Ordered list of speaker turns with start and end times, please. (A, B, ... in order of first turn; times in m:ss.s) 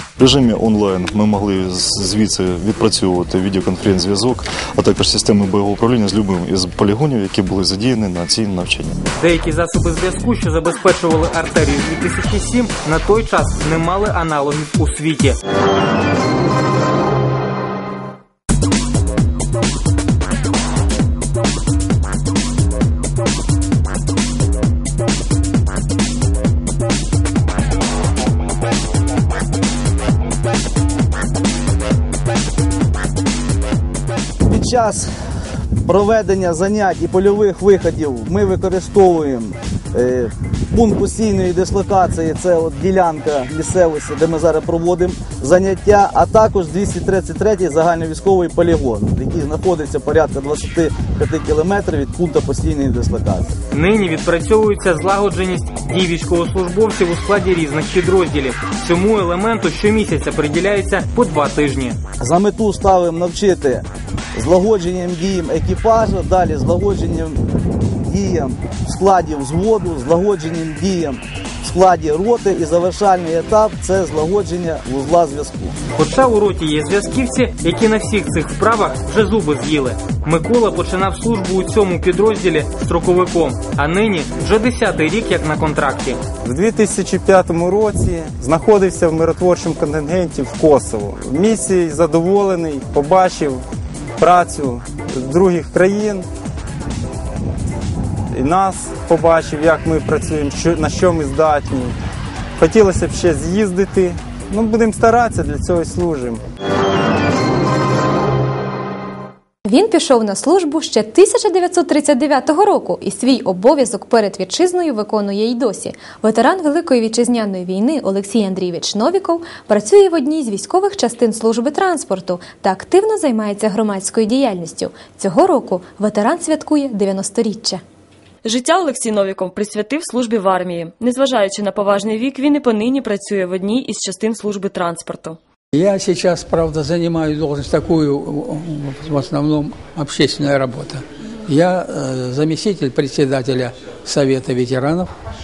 0:00.2-0:08.9 A
0:09.2-0:15.4 B
0:34.4-0:35.1 C
0:35.8-0:53.5 C
0:53.7-1:02.0 B
1:02.2-1:07.4 C
1:08.0-1:15.8 C
1:16.0-1:26.2 B
1:26.4-1:33.6 D
1:34.2-1:36.2 D
1:38.3-1:41.9 D
1:42.6-1:46.4 D
1:49.6-2:07.8 E
2:08.4-2:15.4 F
2:15.7-2:25.1 G